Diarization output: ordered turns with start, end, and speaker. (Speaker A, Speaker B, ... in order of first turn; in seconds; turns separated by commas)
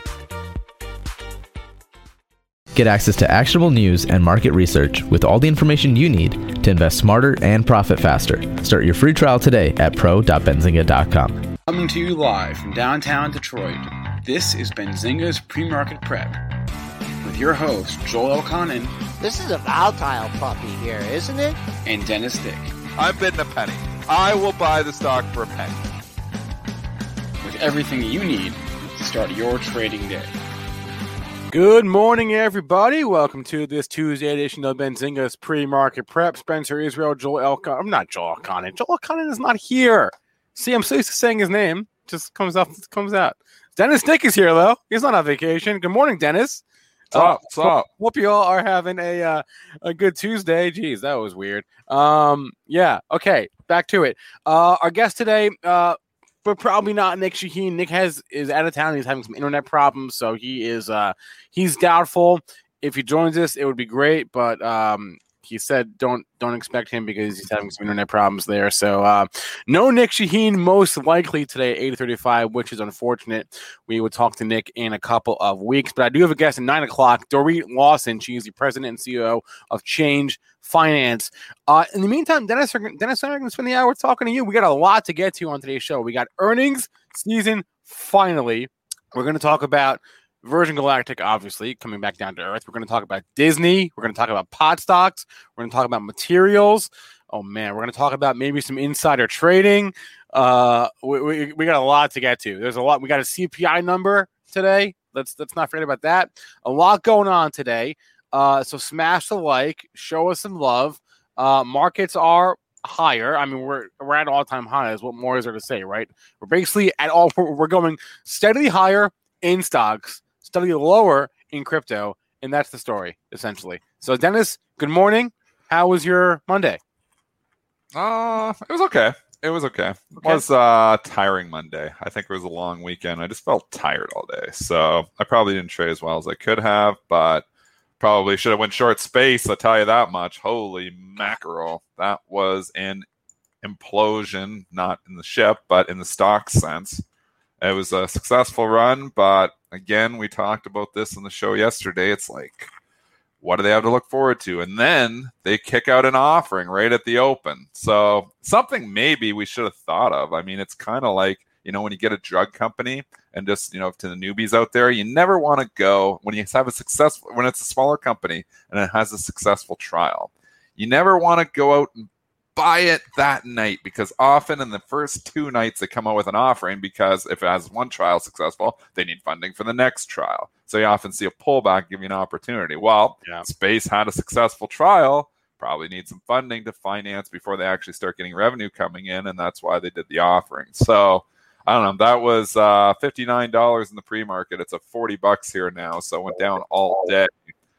Speaker A: 2.7-11.5, Speaker B: 11.7-16.4, Speaker B: 17.2-18.9, Speaker C: 19.2-21.6, Speaker B: 21.8-22.7, Speaker D: 23.0-25.8, Speaker B: 27.4-30.3, Speaker E: 31.5-126.8, Speaker D: 47.1-47.9, Speaker D: 127.9-137.4, Speaker E: 130.2-130.4, Speaker D: 138.0-143.1, Speaker D: 143.6-147.0, Speaker D: 147.6-152.7, Speaker D: 153.4-197.4, Speaker E: 196.3-197.1